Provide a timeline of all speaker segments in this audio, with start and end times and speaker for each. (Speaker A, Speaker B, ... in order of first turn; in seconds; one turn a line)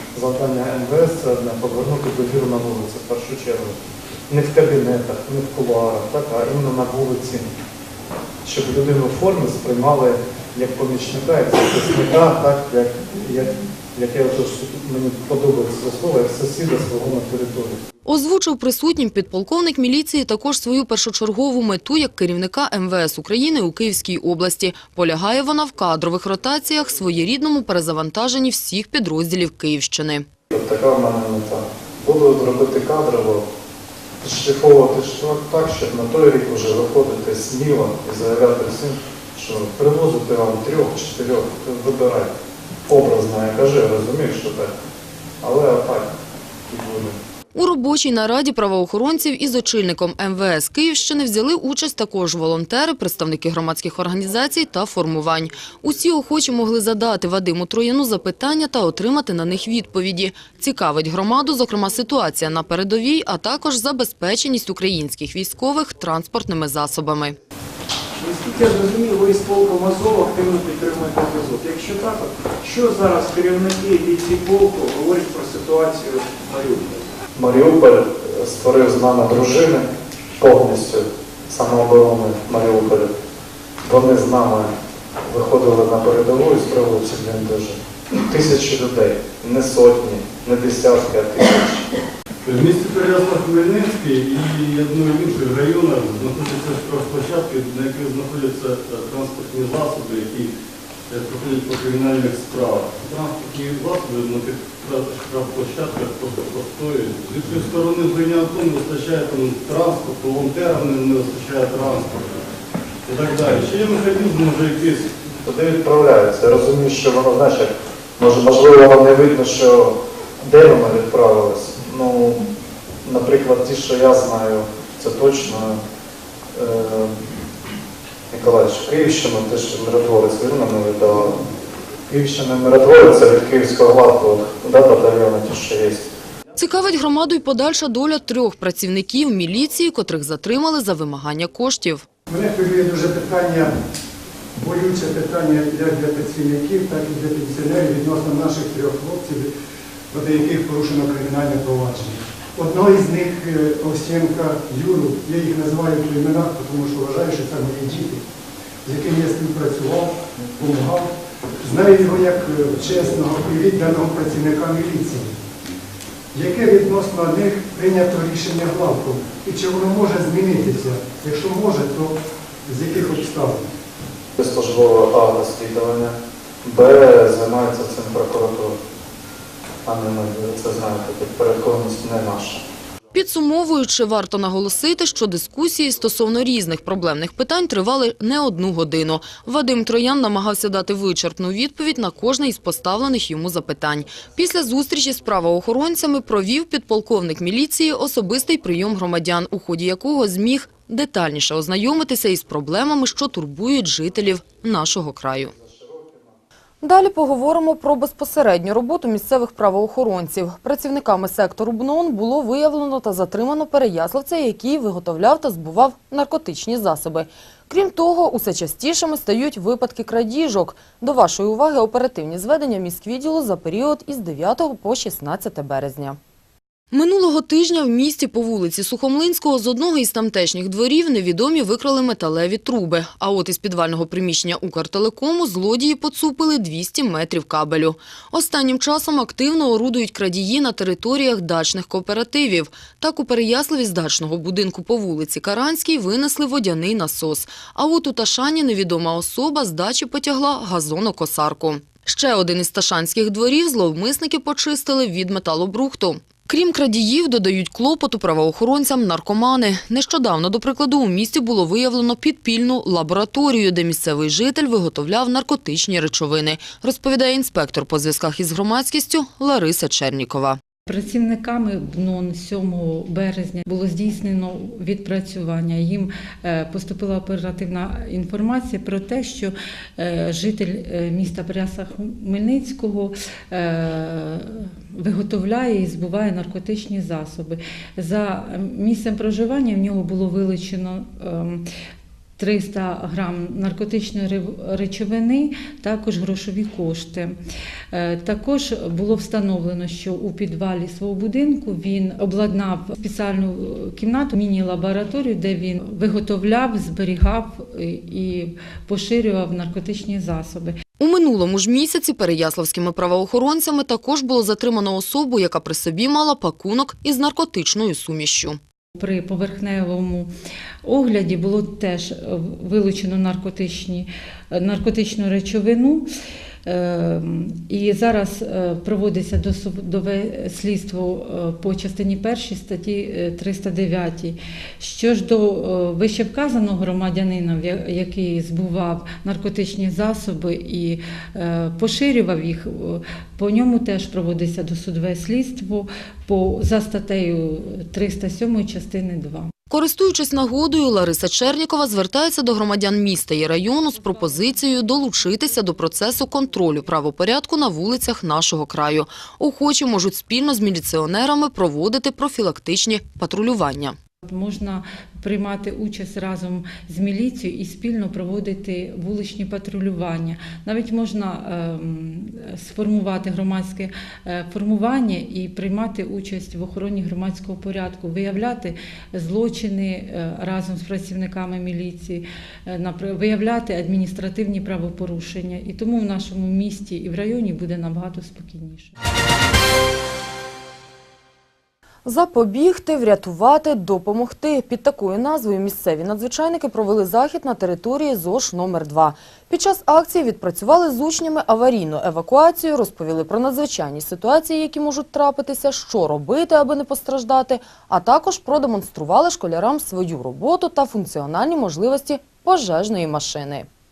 Speaker A: 0.1-7.5
Speaker A: 8.4-17.8
Speaker B: 18.1-30.2
Speaker A: 30.5-33.5
Speaker A: 34.2-42.4
Speaker A: 42.9-44.7
Speaker A: 45.4-46.1
Speaker A: 46.7-47.2
Speaker B: 47.5-67.3
Speaker C: 68.2-77.0
Speaker A: 77.3-83.1
Speaker A: 83.8-91.9
Speaker D: 92.4-100.5
Speaker D: 101.1-112.5
Speaker D: 113.0-115.1
Speaker A: 115.4-122.5
Speaker A: 123.0-125.8
Speaker A: 126.5-127.2
Speaker A: 128.3-131.4
Speaker A: 132.1-136.1
Speaker B: 136.6-142.0
Speaker E: 142.3-143.8
Speaker E: 144.5-149.5
Speaker E: 150.1-158.2
Speaker E: 158.8-165.3
Speaker E: 166.3-173.7
Speaker A: 174.4-178.8
Speaker A: 179.8-182.6
Speaker B: 183.1-205.5
Speaker A: 205.9-206.2
Speaker B: 206.8-226.2
Speaker B: 226.9-270.6
Speaker F: 270.9-291.6
Speaker F: 292.4-297.4
Speaker F: 297.9-310.8
Speaker B: 311.0-318.6
Speaker F: 318.9-320.3
Speaker F: 320.8-326.1
Speaker F: 326.6-349.5
Speaker B: 349.7-364.0
Speaker F: 364.2-388.9
Speaker B: 392.0-413.7